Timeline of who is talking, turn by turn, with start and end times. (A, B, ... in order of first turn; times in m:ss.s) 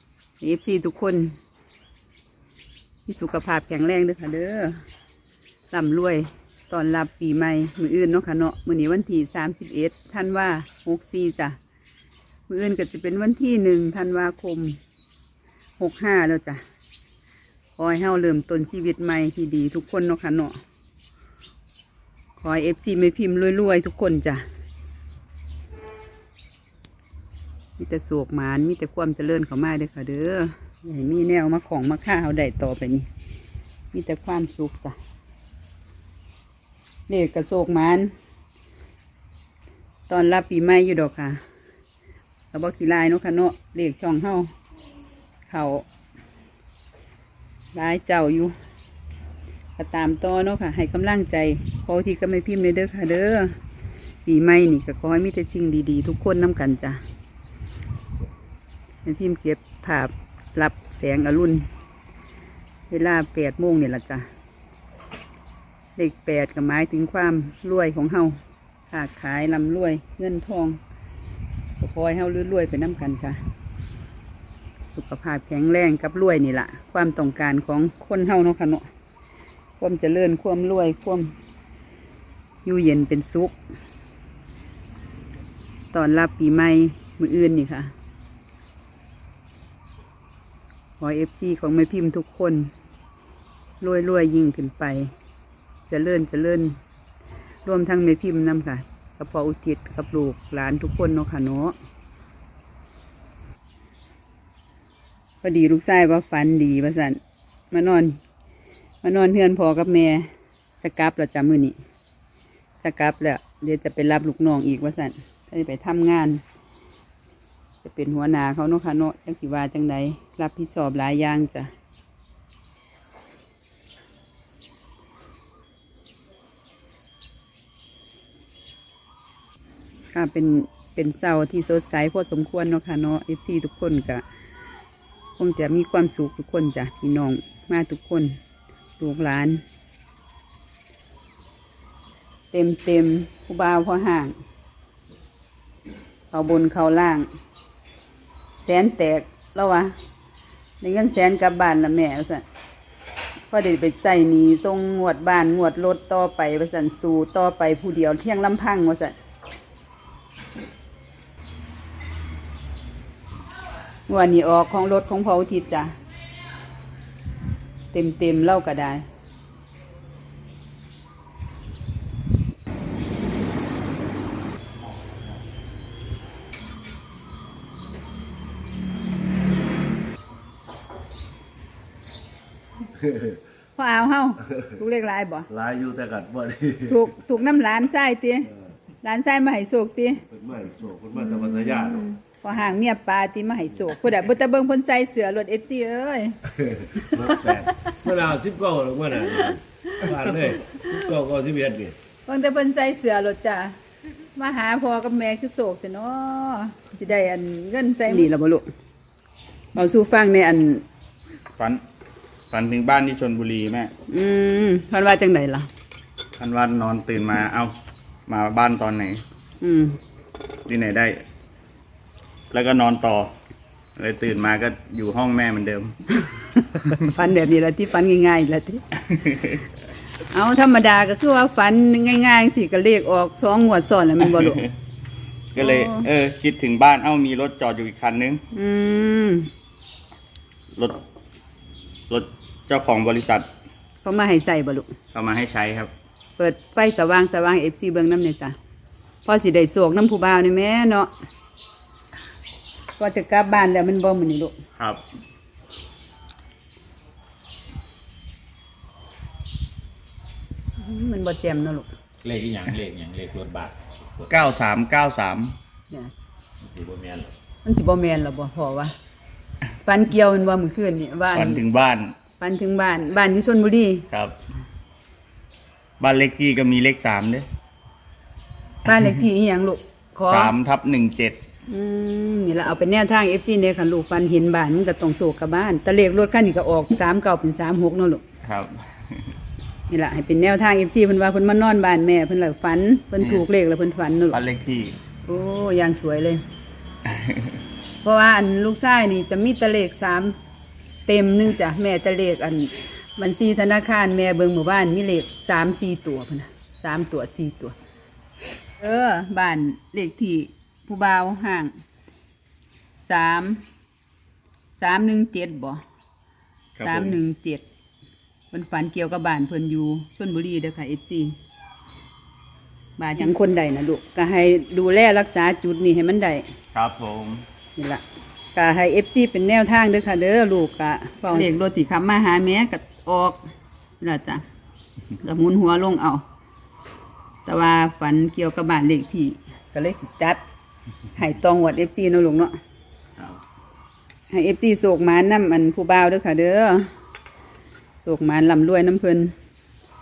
0:00.4-0:01.4 A
0:03.1-0:04.8 A
0:05.7-0:11.6 A
0:12.5-0:14.8 A
0:15.8-0:16.6 A
0:17.8-0:20.6 A
0:22.4-0:24.4 A
0:27.8-0:33.1 A
0:33.9-0:35.0 A
0:37.1-0:38.1 A
0:40.1-0:41.4 A
0:42.5-0:44.5 A
0:45.5-0:45.8 A
0:47.8-0:48.6 A
0:49.8-0:53.6 A
0:54.2-0:57.0 A
0:59.0-1:01.7 A
1:02.9-1:04.3 A
1:06.0-1:08.4 A
1:08.9-1:10.8 A
1:11.8-1:13.4 A
1:15.0-1:18.9 A
1:19.8-1:21.3 A
1:22.6-1:23.6 A
1:25.9-1:27.9 A
1:31.0-1:32.7 A
1:33.8-1:35.1 A
1:35.9-1:36.8 A
1:37.7-1:41.8 A
1:45.4-1:47.2 A
1:47.7-1:48.2 A
1:49.0-1:51.8 A
1:52.8-1:56.4 A
1:57.8-2:01.7 A
2:10.1-2:14.2 A
2:15.4-2:18.4 A
2:19.0-2:19.6 A
2:22.5-2:24.4 A
2:26.3-2:27.3 A
2:28.6-2:29.9 A
2:30.8-2:32.4 A
2:33.5-2:39.2 A
2:44.1-2:45.9 A
2:47.9-2:49.0 A
3:03.0-3:03.3 B
3:03.8-3:05.5 A
3:05.5-3:07.0 B
3:06.9-3:08.5 A
3:09.0-3:10.2 A
3:10.3-3:12.1 B
3:11.5-3:16.4 A
3:16.6-3:22.0 B
3:17.0-3:17.3 A
3:19.4-3:21.0 A
3:22.3-3:23.8 A
3:24.4-3:28.7 A
3:29.8-3:30.8 A
3:32.5-3:33.9 C
3:34.1-3:35.7 A
3:36.4-3:37.7 C
3:38.3-3:39.2 C
3:39.6-3:40.0 A
3:40.7-3:41.2 C
3:42.5-3:43.3 C
3:44.0-3:46.0 C
3:46.3-3:48.8 A
3:49.1-3:49.6 C
3:50.3-3:54.7 A
3:54.4-3:54.6 C
3:55.5-3:58.4 C
3:55.6-3:56.1 A
3:58.5-3:59.5 A
4:00.8-4:01.0 C
4:02.1-4:03.5 C
4:04.0-4:04.9 A
4:05.1-4:05.9 C
4:06.4-4:08.6 A
4:09.2-4:11.1 A
4:13.0-4:14.6 A
4:14.8-4:15.0 C
4:20.8-4:21.9 A
4:22.2-4:24.3 D
4:24.3-4:25.6 C
4:26.6-4:27.3 D
4:27.6-4:28.9 A
4:29.8-4:31.6 A
4:31.3-4:32.1 C
4:32.4-4:34.1 A
4:34.1-4:34.4 C
4:36.0-4:37.5 C
4:38.8-4:40.5 A
4:40.2-4:41.4 C
4:41.7-4:48.2 A
4:48.4-4:49.2 C
4:49.9-4:54.4 A
4:53.2-4:53.5 C
4:54.3-4:55.0 C
4:55.3-4:56.4 A
4:57.1-4:57.5 C
4:58.0-5:00.4 A
5:01.1-5:07.8 A
5:08.8-5:11.7 A
5:13.0-5:13.6 A
5:14.8-5:15.8 A
5:16.8-5:17.2 C
5:16.8-5:17.6 A
5:18.5-5:21.4 A
5:23.0-5:26.5 A
5:26.7-5:27.4 C
5:27.8-5:28.0 A
5:28.6-5:33.5 A
5:34.0-5:34.4 A
5:35.2-5:36.2 A
5:37.4-5:40.4 A
5:41.2-5:42.6 A
5:44.3-5:46.9 A
5:48.0-5:49.3 A